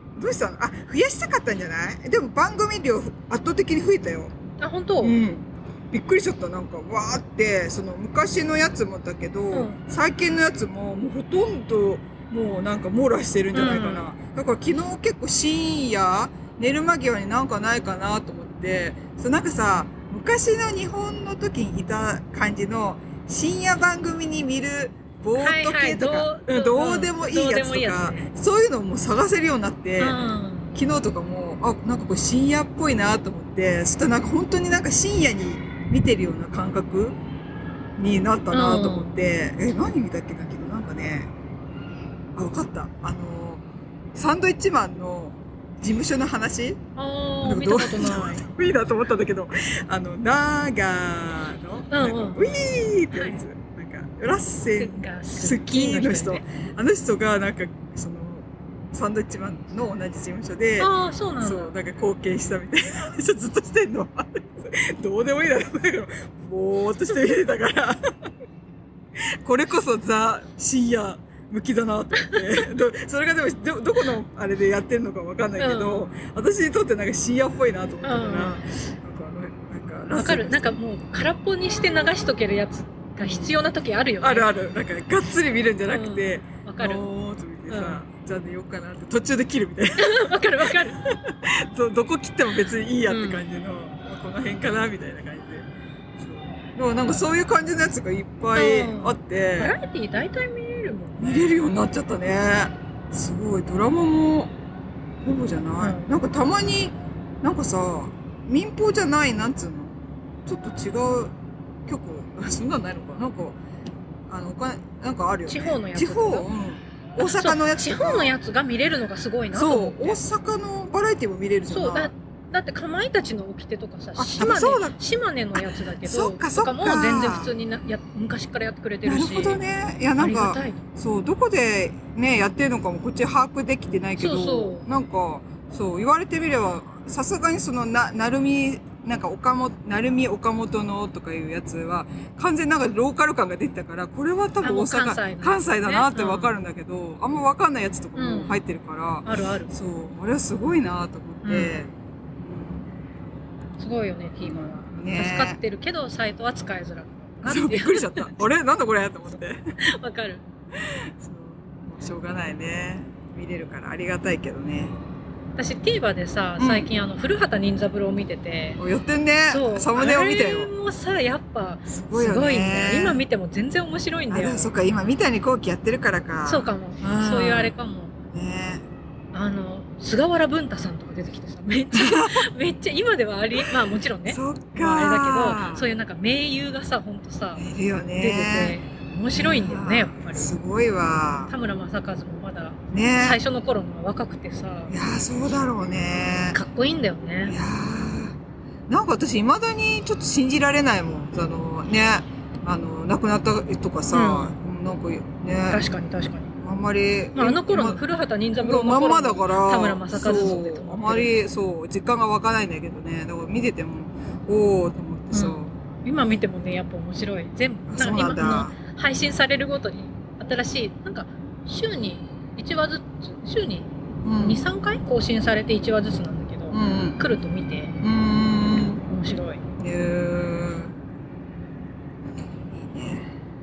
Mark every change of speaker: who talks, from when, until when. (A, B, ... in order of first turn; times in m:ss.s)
0:00.1-0:04.3 A
0:04.6-0:05.2 B
0:05.0-0:30.2 A
0:09.5-0:09.8 B
0:13.5-0:14.1 B
0:25.4-0:28.3 B
0:30.0-0:30.8 B
0:30.7-0:37.2 A
0:38.0-0:41.3 A
0:38.5-0:39.2 B
0:42.4-0:46.8 A
0:47.0-0:48.4 B
0:47.4-1:00.9 A
0:51.9-0:53.4 B
0:54.7-0:56.4 B
1:00.8-1:01.8 B
1:01.4-1:08.1 A
1:09.4-1:20.8 A
1:15.6-1:16.1 B
1:18.0-1:18.6 B
1:20.1-1:24.6 B
1:23.2-1:23.5 A
1:24.2-1:39.7 A
1:25.9-1:27.0 B
1:27.7-1:28.0 B
1:30.0-1:31.0 B
1:33.1-1:33.4 B
1:38.5-1:41.5 B
1:41.2-1:44.5 A
1:45.2-1:51.3 A
1:45.8-1:46.1 B
1:51.8-1:53.6 A
1:54.3-1:58.3 A
1:55.5-1:56.5 B
1:57.2-2:00.2 B
1:59.5-2:02.1 A
2:01.7-2:09.6 B
2:04.2-2:05.0 A
2:05.5-2:07.5 A
2:09.0-2:32.8 A
2:10.2-2:10.8 B
2:14.2-2:14.8 B
2:24.6-2:26.5 B
2:28.1-2:28.6 B
2:29.2-2:29.7 B
2:31.4-2:31.8 B
2:33.8-2:38.4 B
2:34.4-2:35.6 A
2:37.4-2:39.6 A
2:39.8-2:40.4 B
2:40.8-2:44.9 A
2:45.6-2:48.8 B
2:46.6-2:46.9 A
2:48.8-2:50.7 A
2:49.5-2:54.7 B
2:51.9-2:53.2 A
2:54.3-2:57.7 A
2:56.4-2:58.2 B
2:58.3-2:58.8 A
2:59.3-3:07.6 B
3:01.9-3:02.5 A
3:04.3-3:05.9 A
3:07.6-3:08.8 A
3:08.2-3:10.5 B
3:09.3-3:11.5 A
3:11.5-3:14.9 B
3:12.9-3:13.4 A
3:14.9-3:16.6 A
3:16.5-3:17.6 B
3:17.4-3:18.4 A
3:18.9-3:25.8 A
3:24.1-3:24.5 B
3:25.7-3:26.5 B
3:26.6-3:28.0 A
3:27.4-3:31.4 B
3:28.6-3:35.7 A
3:35.3-3:47.9 B
3:37.9-3:38.7 A
3:44.2-3:44.6 A
3:46.7-3:47.2 A
3:48.0-3:49.0 A
3:49.1-3:49.6 B
3:49.8-3:50.9 A
3:52.7-3:53.3 A